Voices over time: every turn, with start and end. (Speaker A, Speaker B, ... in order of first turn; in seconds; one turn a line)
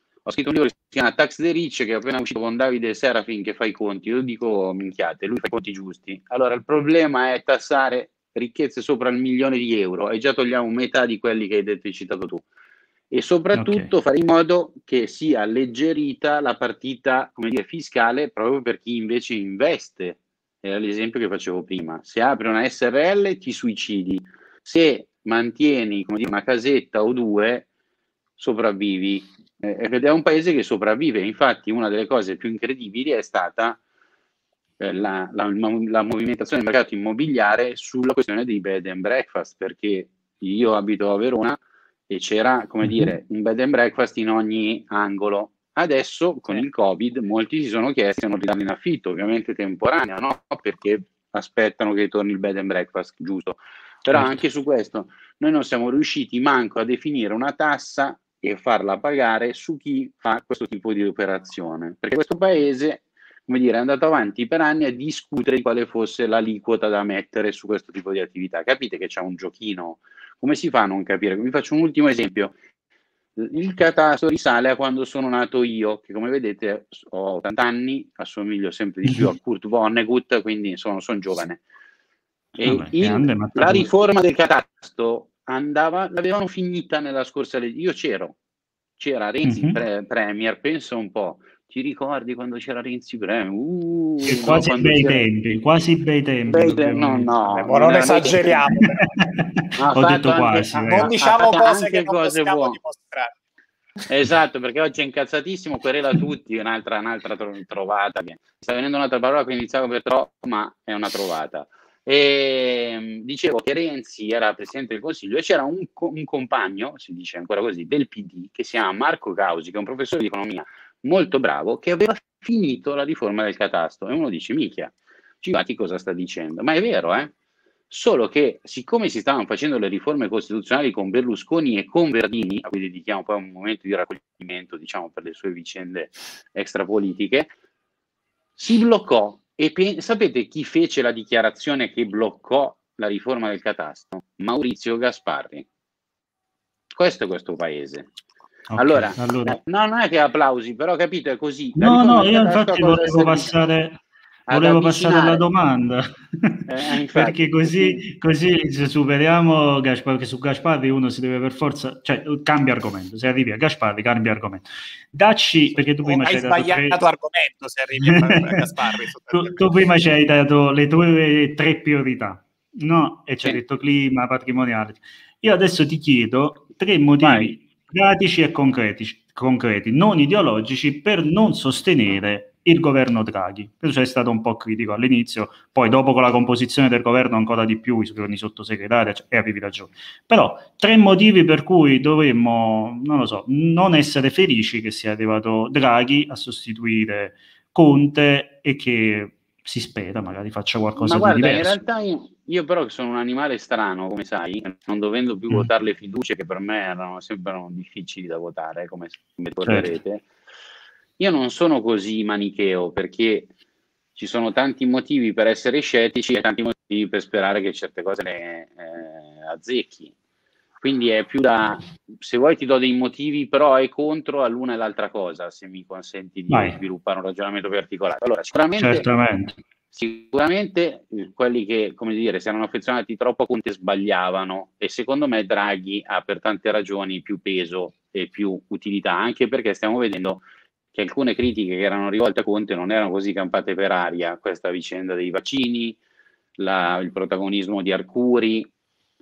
Speaker A: 0.2-12.5
Speaker A: 13.1-27.7
Speaker B: 13.6-13.9
Speaker A: 28.4-33.8
Speaker A: 34.8-72.5
Speaker B: 42.8-43.1
Speaker B: 54.1-54.4
Speaker A: 73.4-81.6
Speaker B: 79.1-79.3
Speaker A: 82.6-88.4
Speaker B: 82.6-83.9
Speaker A: 89.0-95.2
Speaker B: 89.5-89.8
Speaker B: 94.2-97.3
Speaker A: 96.5-98.6
Speaker C: 97.5-99.1
Speaker B: 99.0-101.1
Speaker A: 99.8-102.8
Speaker C: 100.8-103.4
Speaker A: 104.1-127.3
Speaker A: 127.9-137.5
Speaker A: 138.6-145.7
Speaker A: 146.9-148.1
Speaker B: 148.7-149.6
Speaker A: 148.8-153.5
Speaker B: 151.8-167.0
Speaker A: 154.5-155.4
Speaker A: 156.7-158.0
Speaker C: 166.0-169.7
Speaker B: 168.0-168.7
Speaker B: 169.3-201.8
Speaker A: 177.2-177.5
Speaker A: 201.0-210.2
Speaker B: 209.7-209.9
Speaker A: 211.2-213.5
Speaker A: 214.2-220.1
Speaker A: 220.8-229.1
Speaker B: 226.5-226.8
Speaker B: 228.8-229.6
Speaker A: 229.9-246.0
Speaker A: 246.6-248.7